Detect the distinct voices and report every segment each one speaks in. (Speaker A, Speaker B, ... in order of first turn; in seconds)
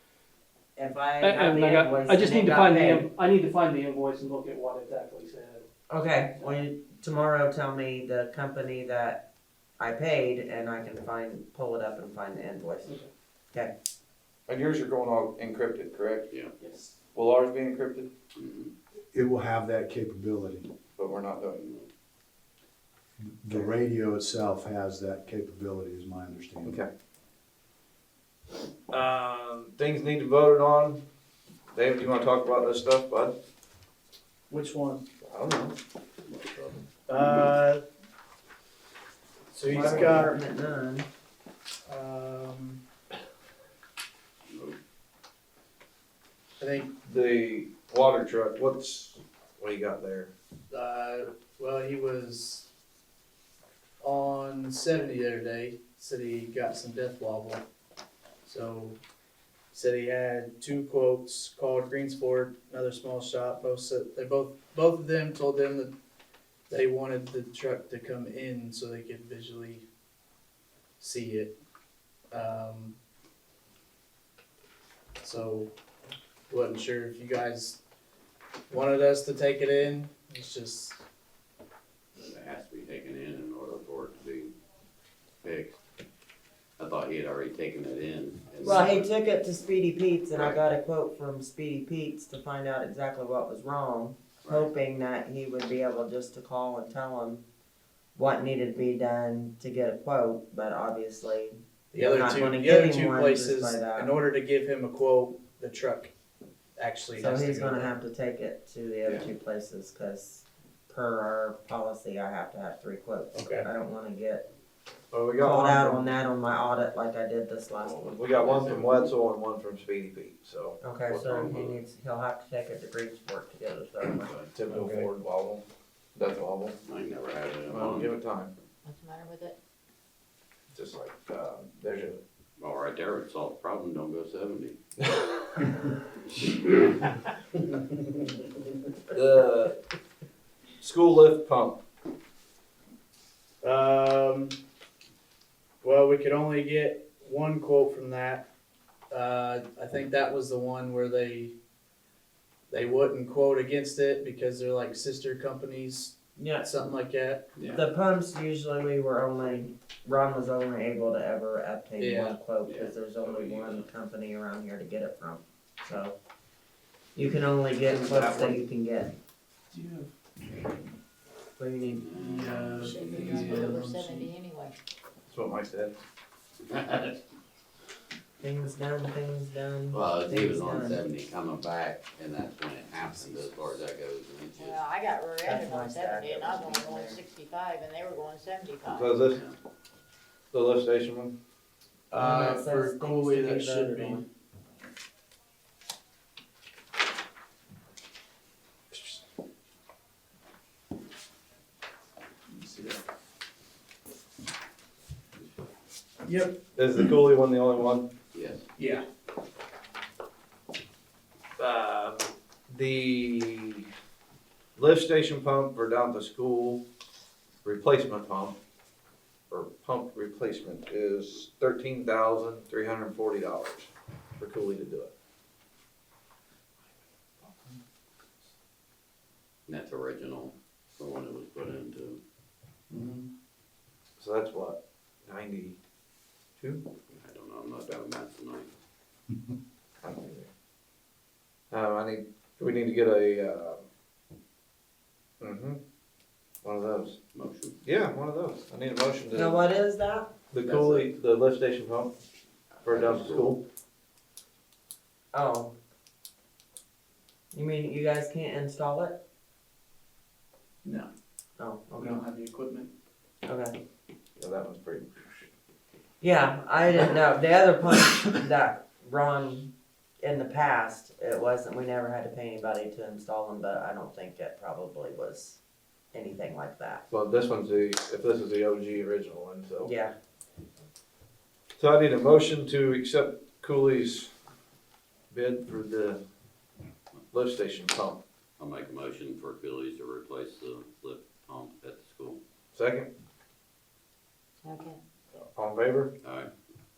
Speaker A: 0.8-3.1, 5.9-9.2, 9.8-13.0, 39.6-41.1, 88.6-97.4, 98.2-104.1, 107.2-114.5, 115.4-118.1, 120.8-124.3, 156.4-156.7, 157.7-166.2, 167.2-169.2, 171.6-172.1, 178.4-181.0, 185.4-187.2, 192.2-194.2, 249.3-250.3, 255.3-255.8, 257.5-259.2, 261.6-262.2, 263.4-263.8, 266.2-275.6, 276.1-277.0, 279.8-280.1
Speaker B: 1.2-5.6, 16.6-16.9
Speaker C: 14.5-16.3, 17.1-18.1, 21.0-21.7, 23.5-23.8, 28.9-31.0, 31.7-33.4, 35.2-35.8, 39.8-40.1, 47.0-50.3, 115.1-116.1, 118.0-120.8, 124.5-125.7, 126.2-126.8, 127.7-128.5, 130.7-132.2, 139.1-139.8, 140.8-141.8, 168.0-168.5, 175.3-176.0, 188.9-189.4, 190.5-191.3, 206.8-208.1, 211.6-213.9, 214.8-216.8, 217.6-218.6, 219.5-225.1, 227.4-227.8, 234.2-235.8, 236.6-236.8, 240.0-240.5, 241.7-243.8, 245.4-245.8, 246.6-247.2, 247.8-249.6, 250.5-252.1, 252.8-253.6, 264.4-265.5, 277.1-279.9, 281.8-284.3, 285.3-286.2, 287.3-288.2, 292.7-293.1, 295.4-296.1
Speaker D: 18.4-18.7, 21.6-21.9, 36.3-37.2, 44.5-44.8, 82.2-84.5, 85.4-85.8, 86.8-89.1, 90.3-90.6, 94.4-94.7, 117.8-119.1, 121.1-121.8, 124.0-124.5, 126.9-128.1, 132.6-134.8, 136.4-137.1, 157.6-157.8, 162.6-163.9, 171.9-173.5, 176.7-177.2, 179.9-184.8, 188.9-189.6, 208.3-208.6, 229.7-232.2, 237.1-238.7, 247.3-247.8, 250.6-251.1, 252.8-253.5, 288.6-292.4, 296.2-296.5
Speaker E: 19.1-20.7, 23.2-26.8
Speaker F: 34.5-35.0, 37.1-37.8, 39.5-40.3, 41.9-42.8, 46.6-46.9, 50.7-52.7, 54.0-57.6, 58.5-59.0, 59.7-65.9, 66.7-69.8, 71.0-71.5, 72.3-73.0, 75.2-75.7, 76.5-77.8, 78.7-81.0, 101.9-106.1, 106.8-107.9, 113.3-113.7, 143.6-144.6, 145.8-148.4, 149.1-151.5, 152.7-157.4, 162.0-162.4, 169.7-170.1, 172.1-174.3, 192.1-194.2, 202.5-203.0, 206.2-206.6, 208.8-209.1, 232.9-233.3, 260.8-261.1, 262.0-262.9
Speaker G: 128.8-129.6, 172.9-174.8, 184.6-189.1, 294.6-295.0